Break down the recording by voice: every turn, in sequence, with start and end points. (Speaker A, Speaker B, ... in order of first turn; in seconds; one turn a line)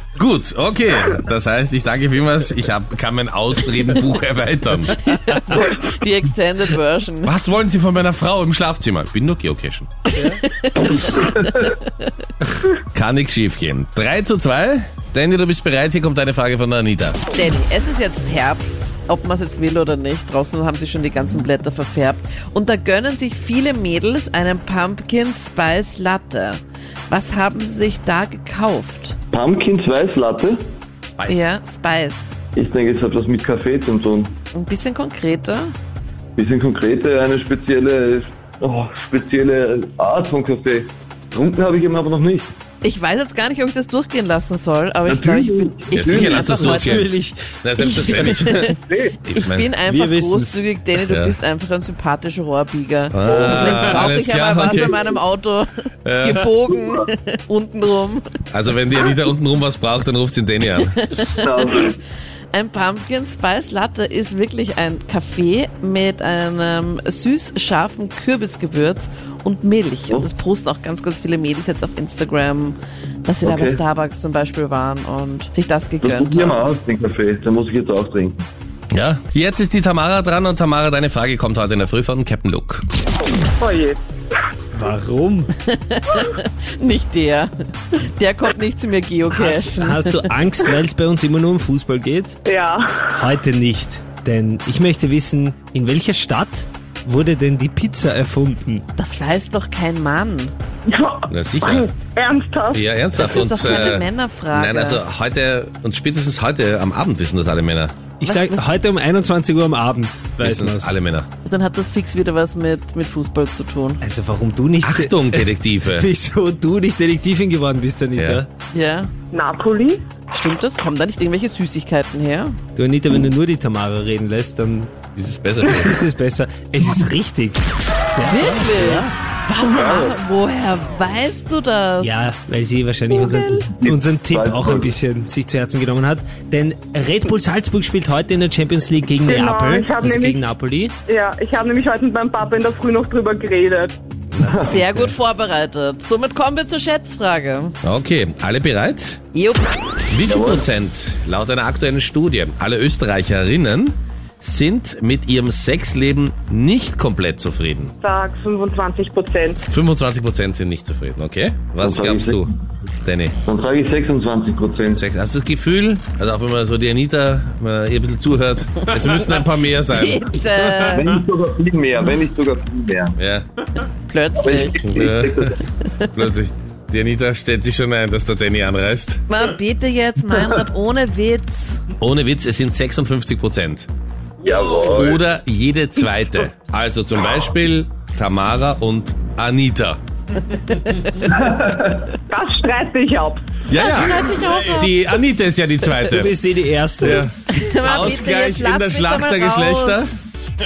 Speaker A: 0.1-5.0
Speaker B: 5.0-7.3
Speaker A: 7.2-10.1
Speaker B: 10.1-11.9
Speaker C: 11.2-11.5
Speaker A: 12.9-17.2
Speaker B: 17.3-29.2
Speaker C: 29.3-30.6
Speaker A: 31.2-31.4
Speaker B: 31.3-32.3
Speaker C: 32.5-34.4
Speaker B: 34.5-35.7
Speaker C: 36.4-42.5
Speaker B: 42.8-47.1
Speaker C: 45.0-46.4
Speaker A: 45.9-49.8
Speaker D: 46.3-47.5
Speaker B: 47.8-48.8
Speaker C: 48.8-49.2
Speaker B: 49.3-58.2
Speaker D: 49.9-50.6
Speaker A: 51.1-51.4
Speaker A: 53.1-55.0
Speaker C: 53.2-54.0
Speaker A: 56.0-56.5
Speaker A: 58.5-61.0
Speaker B: 60.9-61.5
Speaker C: 61.3-62.0
Speaker B: 62.5-76.6
Speaker C: 73.4-73.8
Speaker C: 76.0-78.5
Speaker A: 78.9-82.9
Speaker E: 83.6-84.0
Speaker D: 84.7-85.5
Speaker B: 85.7-90.3
Speaker D: 89.3-92.3
Speaker E: 92.5-93.2
Speaker D: 93.1-98.8
Speaker B: 99.0-100.5
Speaker E: 100.9-102.8
Speaker A: 101.3-101.8
Speaker A: 102.7-108.1
Speaker B: 103.1-105.0
Speaker D: 108.2-111.0
Speaker B: 108.2-108.7
Speaker A: 110.4-111.3
Speaker B: 111.5-114.0
Speaker D: 114.0-118.5
Speaker A: 114.8-116.1
Speaker A: 118.2-118.4
Speaker B: 118.7-119.1
Speaker E: 119.3-120.0
Speaker B: 120.3-122.6
Speaker D: 122.8-125.0
Speaker A: 125.1-126.0
Speaker D: 125.6-129.1
Speaker B: 128.2-132.3
Speaker C: 129.6-130.2
Speaker D: 132.0-140.9
Speaker E: 133.1-133.5
Speaker C: 133.6-134.9
Speaker E: 139.2-140.4
Speaker E: 141.1-143.9
Speaker C: 144.4-144.8
Speaker B: 144.6-147.8
Speaker A: 147.8-149.2
Speaker B: 149.3-149.7
Speaker A: 150.1-157.9
Speaker C: 150.2-150.7
Speaker E: 158.0-159.6
Speaker A: 159.7-162.5
Speaker C: 161.8-162.6
Speaker A: 163.0-163.4
Speaker C: 163.4-165.0
Speaker A: 164.9-170.3
Speaker B: 169.9-171.2
Speaker C: 170.8-173.2
Speaker A: 173.2-173.4
Speaker B: 174.1-174.8
Speaker C: 174.4-175.6
Speaker A: 174.8-175.5
Speaker A: 176.1-179.2
Speaker B: 179.3-181.8
Speaker A: 182.0-183.9
Speaker C: 184.4-185.2
Speaker A: 184.8-190.0
Speaker C: 191.2-192.1
Speaker E: 192.3-193.5
Speaker A: 193.7-196.4
Speaker B: 193.7-194.9
Speaker D: 196.0-197.2
Speaker A: 197.0-200.1
Speaker B: 197.5-200.2